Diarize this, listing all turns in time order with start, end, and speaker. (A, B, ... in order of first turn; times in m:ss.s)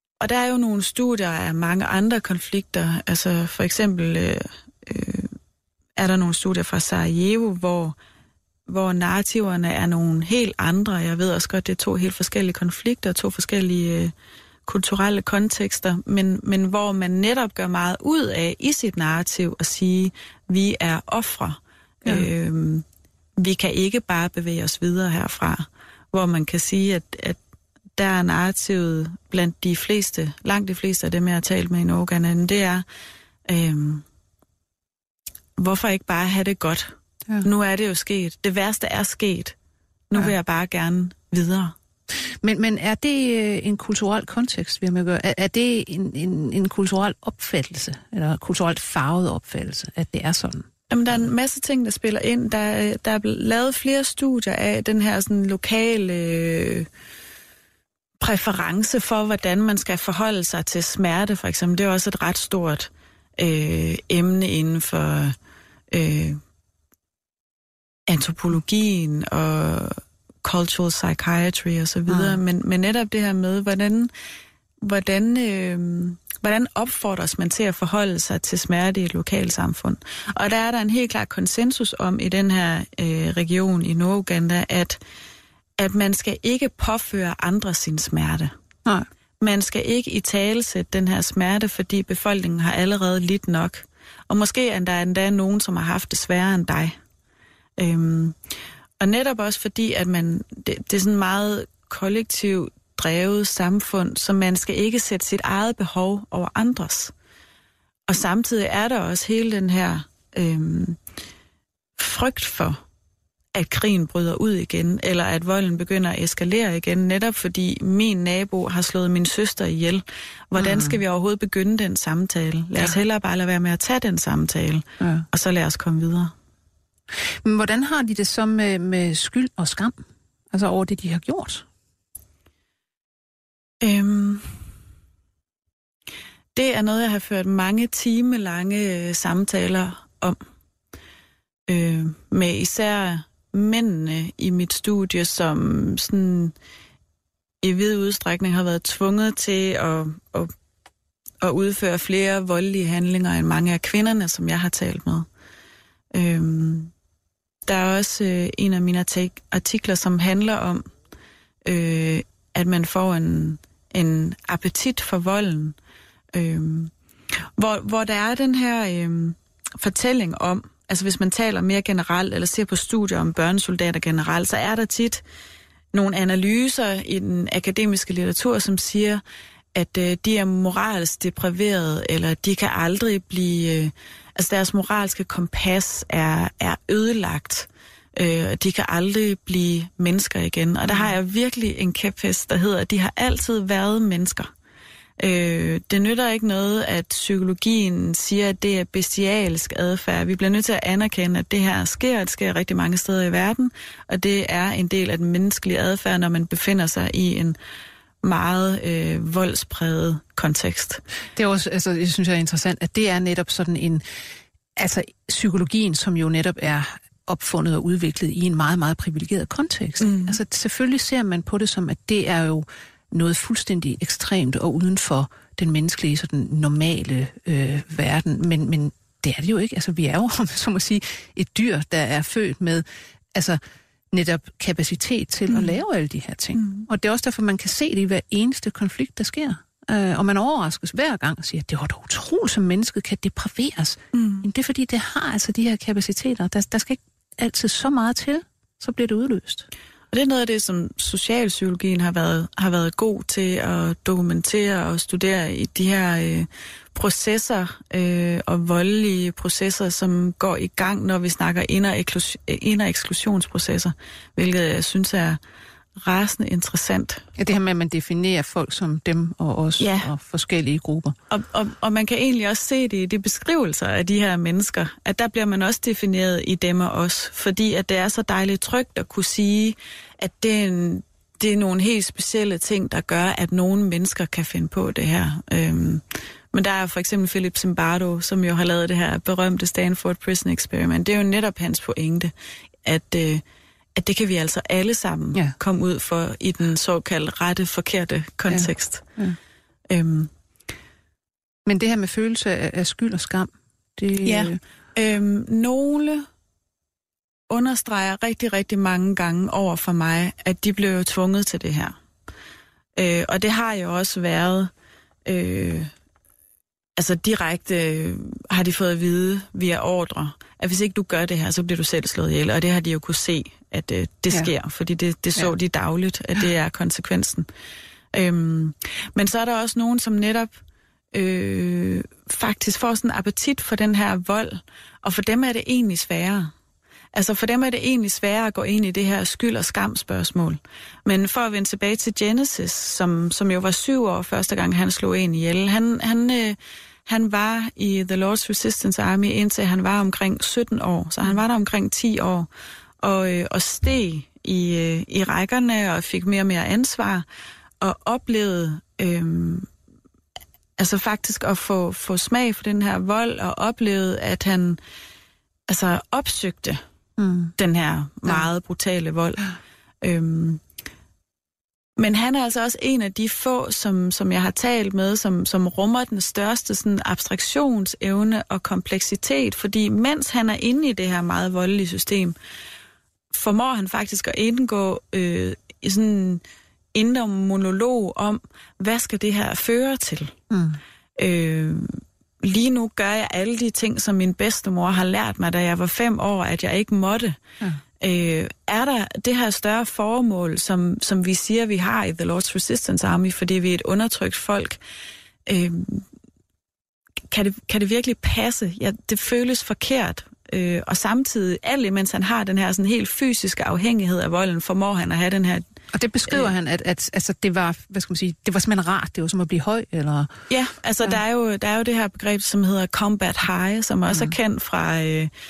0:00.2-0:05.3 A
0:06.0-0:08.0 A
0:08.7-0:14.1 A
0:14.7-0:22.8 A
0:23.4-0:27.4 A
0:28.0-0:32.8 A
0:33.5-0:34.0 A
0:35.6-0:39.6 A
0:40.1-0:41.7 A
0:42.4-0:50.7 B
0:50.9-0:56.9 A
0:58.2-1:05.4 A
1:05.9-1:06.4 A
1:08.1-1:14.1 A
1:12.1-1:12.4 B
1:14.8-1:25.0 A
1:25.8-1:28.5 A
1:29.4-1:37.0 A
1:37.8-1:38.4 A
1:39.0-1:47.1 A
1:48.1-1:51.0 A
1:52.0-1:52.8 A
1:53.6-2:06.3 A
2:00.6-2:01.0 B
2:05.0-2:05.2 B
2:07.3-2:11.6 B
2:13.8-2:14.5 A
2:16.6-2:20.4 A
2:21.7-2:26.5 A
2:27.6-2:30.5 A
2:31.4-2:35.3 A
2:36.1-2:36.9 A
2:37.7-2:40.8 A
2:41.7-2:45.8 A
2:46.3-2:46.9 A
2:47.6-2:55.2 A
2:55.9-2:59.2 A
2:59.8-3:14.5 A
3:15.2-3:27.6 A
3:28.2-3:31.0 A
3:31.4-3:34.2 B
3:34.8-3:53.6 B
3:40.0-3:40.4 A
3:54.1-4:09.7 B
3:56.6-3:56.9 A
4:04.1-4:04.4 A
4:10.1-4:25.4 A
4:26.0-4:27.2 A
4:27.4-4:31.2 B
4:29.8-4:30.1 A
4:31.3-4:52.3 A
4:52.8-4:53.4 A
4:54.0-4:59.1 A
4:58.5-4:59.4 B
4:59.9-5:00.3 A
5:01.7-5:04.6 B
5:04.2-5:06.3 A
5:07.5-5:12.0 A
5:13.0-5:14.7 A
5:15.3-5:15.9 A
5:17.0-5:27.5 A
5:28.1-5:30.6 A
5:31.1-5:36.5 A
5:37.1-5:52.5 A
5:53.0-5:57.2 A
5:57.8-5:59.7 A
6:00.8-6:04.8 A
6:05.7-6:06.8 A
6:07.2-6:07.5 B
6:07.6-6:09.5 A
6:10.0-6:10.6 A
6:12.0-6:22.4 A
6:23.3-6:26.4 A
6:26.9-6:30.4 A
6:30.5-6:30.8 B
6:31.2-6:37.4 A
6:38.0-6:44.8 A
6:45.5-6:46.0 A
6:47.3-6:55.7 A
6:55.9-7:00.3 B
7:00.5-7:05.3 A